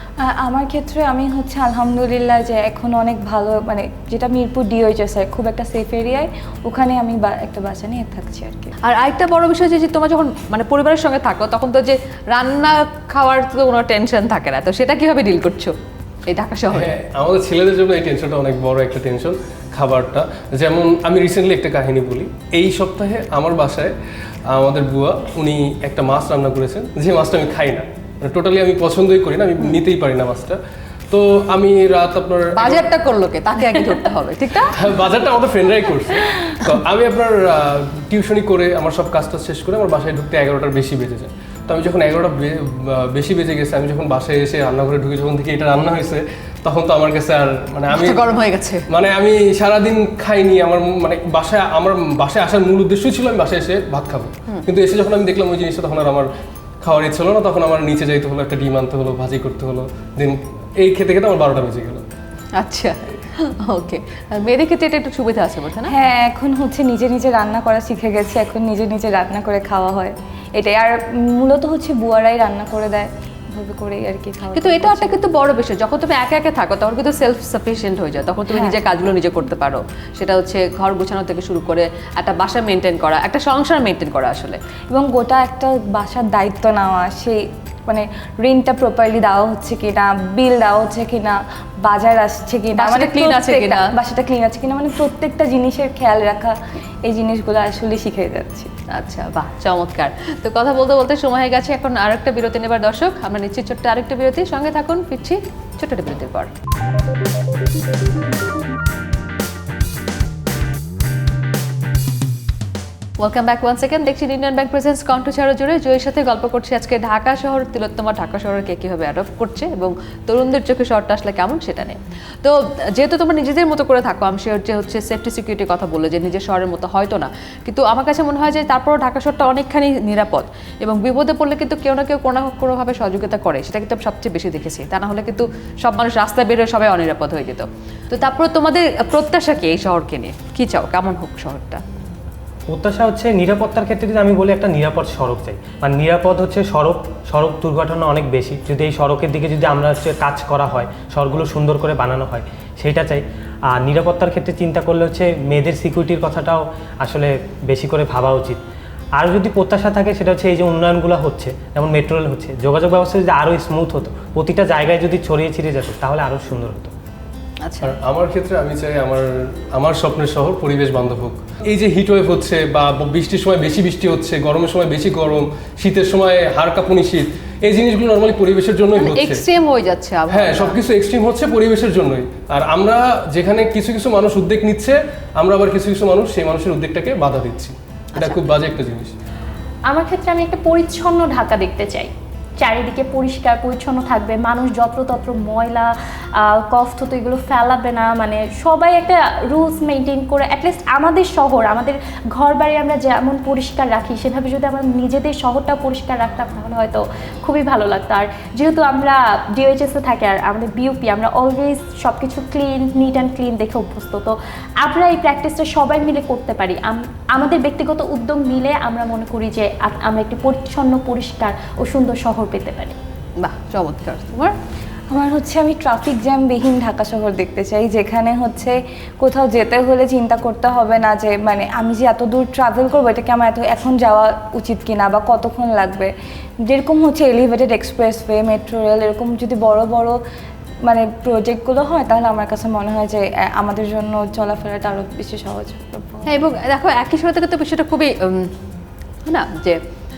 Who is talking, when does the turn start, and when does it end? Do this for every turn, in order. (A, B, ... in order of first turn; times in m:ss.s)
0:00.2-0:08.7 A
0:08.8-0:15.7 B
0:16.3-0:16.9 B
0:16.7-0:23.9 C
0:24.5-0:32.9 C
0:32.5-0:34.8 B
0:34.7-0:48.3 C
0:47.9-0:48.8 B
0:48.9-0:56.3 C
0:56.8-1:02.0 C
1:02.6-1:05.9 B
1:05.9-1:15.2 A
1:14.5-1:24.6 B
1:18.5-1:18.8 A
1:24.9-1:36.5 A
1:32.8-1:33.9 B
1:37.0-1:38.7 A
1:38.9-1:46.5 B
1:53.2-2:21.8 B
2:22.7-2:38.6 D
2:39.2-2:46.9 D
2:47.6-2:47.9 B
2:47.8-2:59.4 C
2:58.9-3:00.8 B
3:00.3-3:09.1 C
3:08.1-3:08.4 B
3:09.9-3:43.0 E
3:43.4-3:44.5 B
3:45.1-3:56.1 A
3:56.6-4:00.2 A
4:00.8-4:06.3 A
4:06.2-4:08.5 B
4:09.3-4:09.8 B